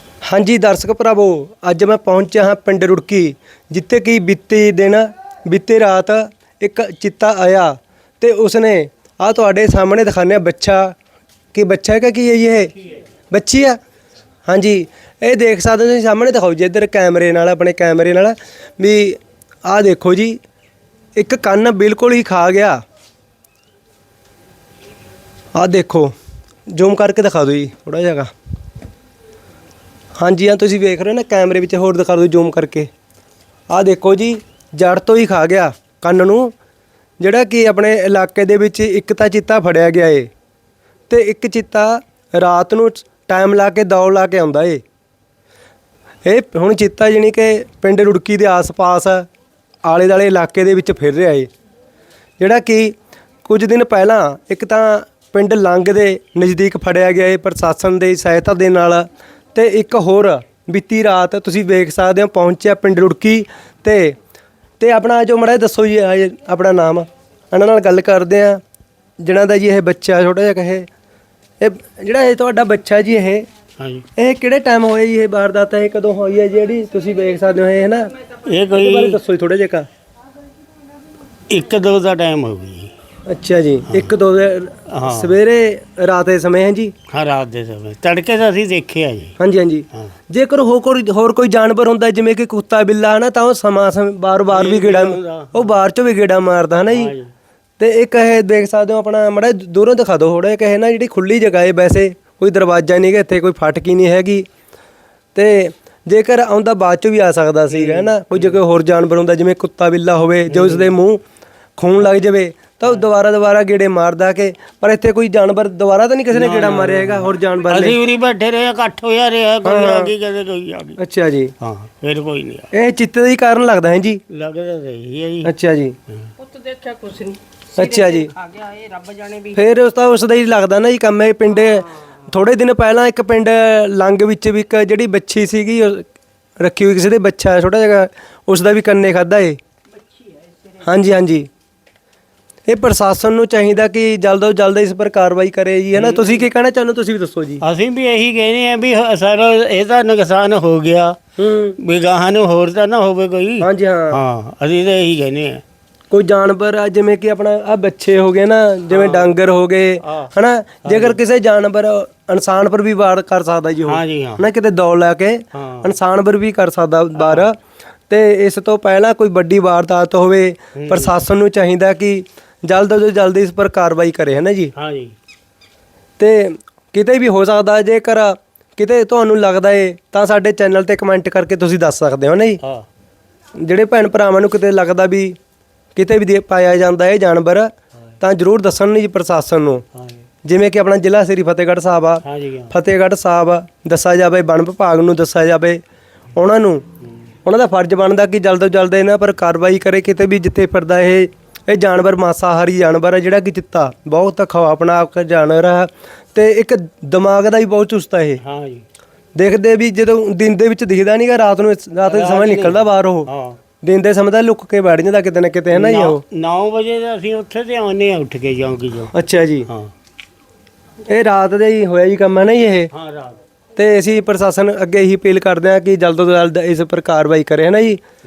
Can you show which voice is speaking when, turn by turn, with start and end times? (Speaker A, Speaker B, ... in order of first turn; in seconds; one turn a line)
Speaker A: 0.2-11.0
Speaker A: 11.5-12.7
Speaker A: 13.3-13.8
Speaker A: 14.4-20.4
Speaker A: 21.1-22.8
Speaker A: 25.5-26.1
Speaker A: 26.7-28.3
Speaker A: 30.2-32.9
Speaker A: 33.7-36.5
Speaker A: 37.2-40.3
Speaker A: 41.1-44.8
Speaker A: 46.2-49.3
Speaker A: 49.8-51.5
Speaker A: 52.4-64.2
Speaker A: 64.8-68.6
Speaker A: 69.2-70.9
Speaker A: 71.6-73.4
Speaker B: 73.8-74.0
Speaker A: 74.2-78.1
Speaker B: 78.4-79.2
Speaker A: 78.7-79.8
Speaker B: 81.5-82.9
Speaker A: 83.3-86.9
Speaker B: 84.9-85.4
Speaker B: 87.1-89.3
Speaker A: 89.4-97.1
Speaker B: 94.5-95.7
Speaker B: 96.7-97.3
Speaker A: 97.8-104.4
Speaker A: 105.3-111.2
Speaker B: 107.7-108.6
Speaker B: 110.5-110.9
Speaker A: 111.8-118.0
Speaker B: 116.3-121.0
Speaker A: 119.6-120.1
Speaker A: 121.0-121.5
Speaker B: 121.6-122.7
Speaker A: 122.7-124.2
Speaker B: 124.3-125.5
Speaker A: 125.4-126.0
Speaker C: 126.4-129.6
Speaker A: 127.8-128.3
Speaker A: 129.5-136.1
Speaker A: 136.6-139.6
Speaker A: 140.8-141.5
Speaker A: 142.7-147.6
Speaker B: 145.9-146.5
Speaker B: 147.6-151.2
Speaker A: 151.4-151.8
Speaker B: 151.8-155.6
Speaker A: 153.6-154.2
Speaker A: 156.1-167.6
Speaker B: 158.9-159.3
Speaker B: 160.0-160.3
Speaker B: 160.8-161.2
Speaker B: 163.8-164.4
Speaker B: 165.5-165.9
Speaker B: 167.2-167.5
Speaker A: 168.1-174.7
Speaker B: 170.8-171.1
Speaker B: 174.8-175.1
Speaker A: 176.2-182.6
Speaker A: 183.6-185.4
Speaker A: 185.9-189.8
Speaker B: 189.9-190.2
Speaker A: 190.4-195.8
Speaker B: 192.2-192.7
Speaker A: 196.3-196.8
Speaker A: 197.4-208.4
Speaker B: 208.4-208.8
Speaker A: 209.3-213.3
Speaker B: 212.1-213.6
Speaker A: 213.8-216.2
Speaker B: 215.7-219.1
Speaker A: 219.1-219.7
Speaker B: 219.7-219.9
Speaker A: 221.1-222.9
Speaker B: 222.9-223.4
Speaker A: 223.7-228.0